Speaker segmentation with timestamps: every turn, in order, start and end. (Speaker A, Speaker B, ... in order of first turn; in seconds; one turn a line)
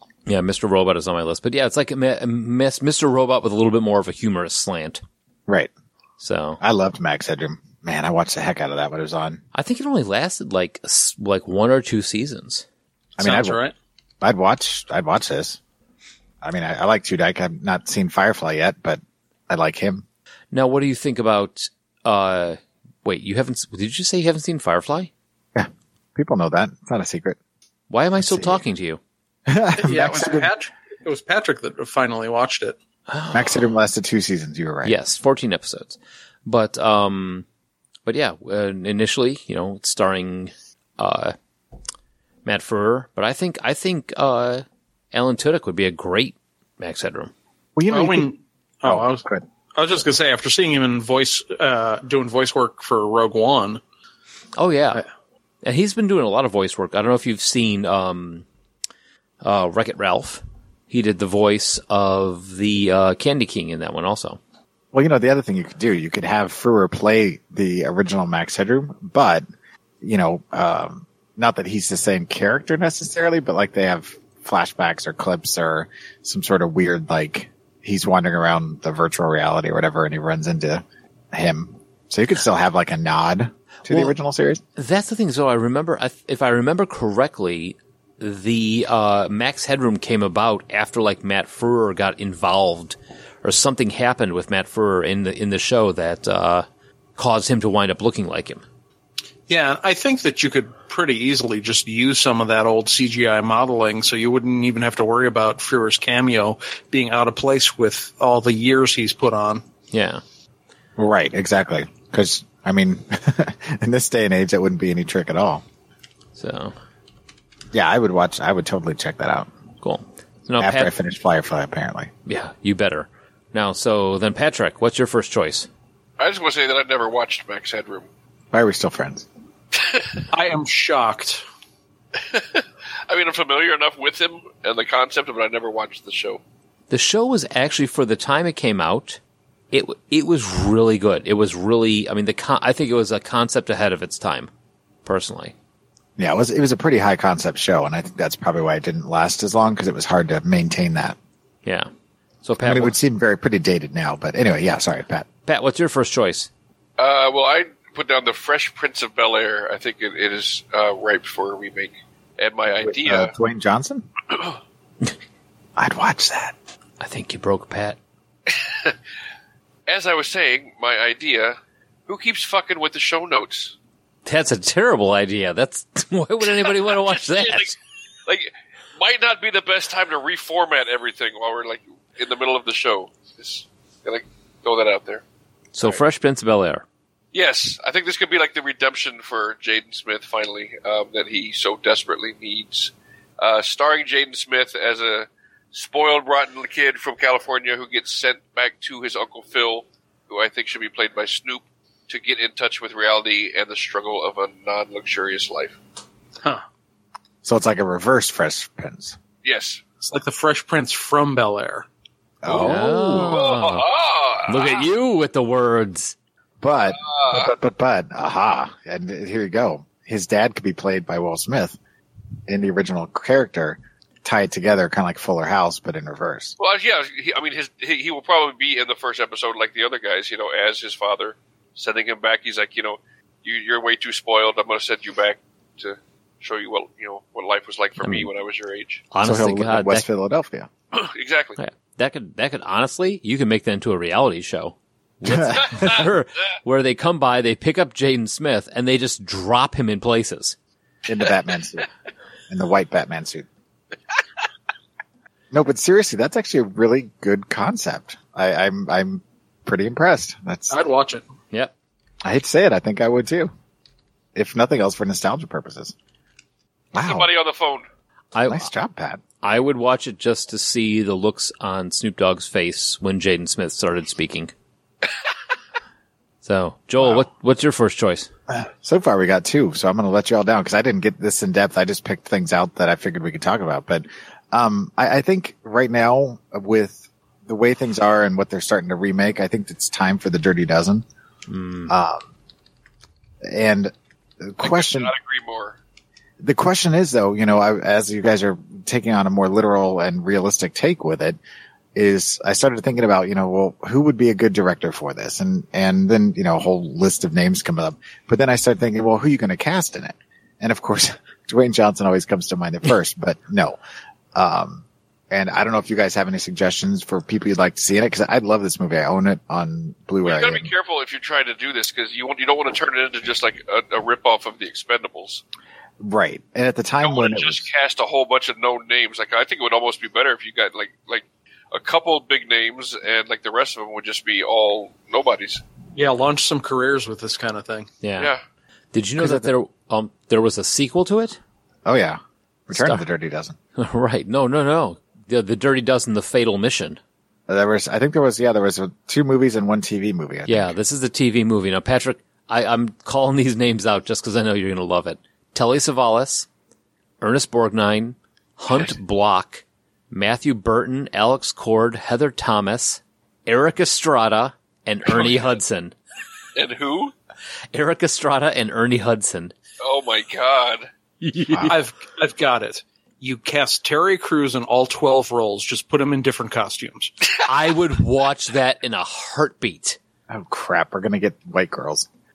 Speaker A: 0.3-5.0
Speaker A: 6.2-6.6
Speaker B: 6.6-9.4
Speaker A: 9.5-12.7
Speaker B: 13.2-13.6
Speaker C: 13.2-13.7
Speaker B: 14.2-15.6
Speaker B: 16.4-20.1
Speaker A: 20.5-25.1
Speaker B: 25.6-27.4
Speaker A: 27.9-29.0
Speaker B: 28.2-28.6
Speaker B: 29.5-30.5
Speaker C: 29.8-32.8
Speaker A: 33.1-33.7
Speaker B: 33.3-35.0
Speaker A: 34.9-37.5
Speaker A: 38.1-41.4
Speaker A: 42.5-47.3
Speaker B: 47.8-48.3
Speaker C: 47.9-53.8
Speaker B: 48.9-49.4
Speaker A: 54.6-55.0
Speaker A: 55.6-58.5
Speaker A: 59.4-64.4
Speaker B: 64.9-69.5
Speaker B: 70.0-84.6
Speaker A: 84.8-98.6
Speaker C: 99.5-109.6
Speaker A: 109.9-110.2
Speaker B: 111.0-115.6
Speaker A: 116.4-116.8
Speaker B: 117.7-119.5
Speaker A: 119.8-120.9
Speaker B: 120.6-122.1
Speaker A: 122.3-125.7
Speaker D: 126.2-128.1
Speaker B: 128.5-129.3
Speaker C: 130.3-131.4
Speaker D: 132.2-136.4
Speaker A: 136.9-139.2
Speaker A: 139.7-144.5
Speaker A: 145.1-145.5
Speaker B: 146.2-151.2
Speaker A: 151.7-151.9
Speaker A: 152.4-152.9
Speaker B: 152.6-155.3
Speaker A: 155.5-156.5
Speaker D: 157.0-163.3
Speaker B: 162.8-164.1
Speaker B: 165.8-166.6
Speaker A: 167.0-168.0
Speaker D: 168.5-169.0
Speaker D: 169.9-173.8
Speaker A: 174.2-177.8
Speaker D: 177.1-177.7
Speaker D: 178.3-185.2
Speaker A: 185.7-186.8
Speaker D: 187.3-205.8
Speaker B: 207.4-209.2
Speaker D: 209.4-209.8
Speaker C: 210.0-211.9
Speaker B: 212.4-212.9
Speaker D: 212.4-214.9
Speaker A: 212.6-213.9
Speaker A: 214.5-216.2
Speaker B: 216.6-221.8
Speaker D: 217.0-217.5
Speaker B: 222.5-226.6
Speaker D: 226.6-239.0
Speaker A: 238.0-238.3
Speaker A: 239.1-240.1
Speaker B: 239.2-240.7
Speaker D: 240.9-241.6
Speaker A: 241.6-250.6
Speaker B: 245.3-245.7
Speaker B: 251.1-251.9
Speaker B: 252.5-253.5
Speaker B: 255.5-260.8
Speaker C: 260.7-261.3
Speaker B: 262.2-263.5
Speaker B: 264.4-265.9
Speaker B: 266.9-267.3
Speaker D: 267.0-267.9
Speaker A: 268.3-268.7
Speaker B: 268.5-269.2
Speaker A: 269.4-274.5
Speaker A: 276.4-278.3
Speaker B: 277.0-277.3
Speaker B: 278.5-291.1
Speaker A: 291.5-291.9
Speaker B: 291.9-292.3
Speaker B: 293.4-295.1
Speaker D: 294.6-295.8
Speaker B: 296.4-301.4
Speaker B: 301.9-313.8
Speaker B: 314.4-320.7
Speaker D: 320.2-325.4
Speaker B: 326.0-327.7
Speaker D: 327.0-335.6
Speaker C: 335.9-337.9
Speaker A: 338.0-338.3
Speaker A: 338.9-341.4
Speaker B: 339.2-339.5
Speaker B: 341.9-343.6
Speaker A: 342.7-343.0
Speaker A: 343.8-347.0
Speaker B: 347.5-350.8
Speaker A: 350.5-356.5
Speaker A: 357.2-365.9
Speaker D: 366.6-367.1
Speaker A: 367.7-369.6
Speaker D: 369.8-370.9
Speaker A: 371.2-371.8
Speaker B: 371.5-371.8
Speaker C: 371.7-377.1
Speaker A: 377.4-380.0
Speaker B: 380.3-382.1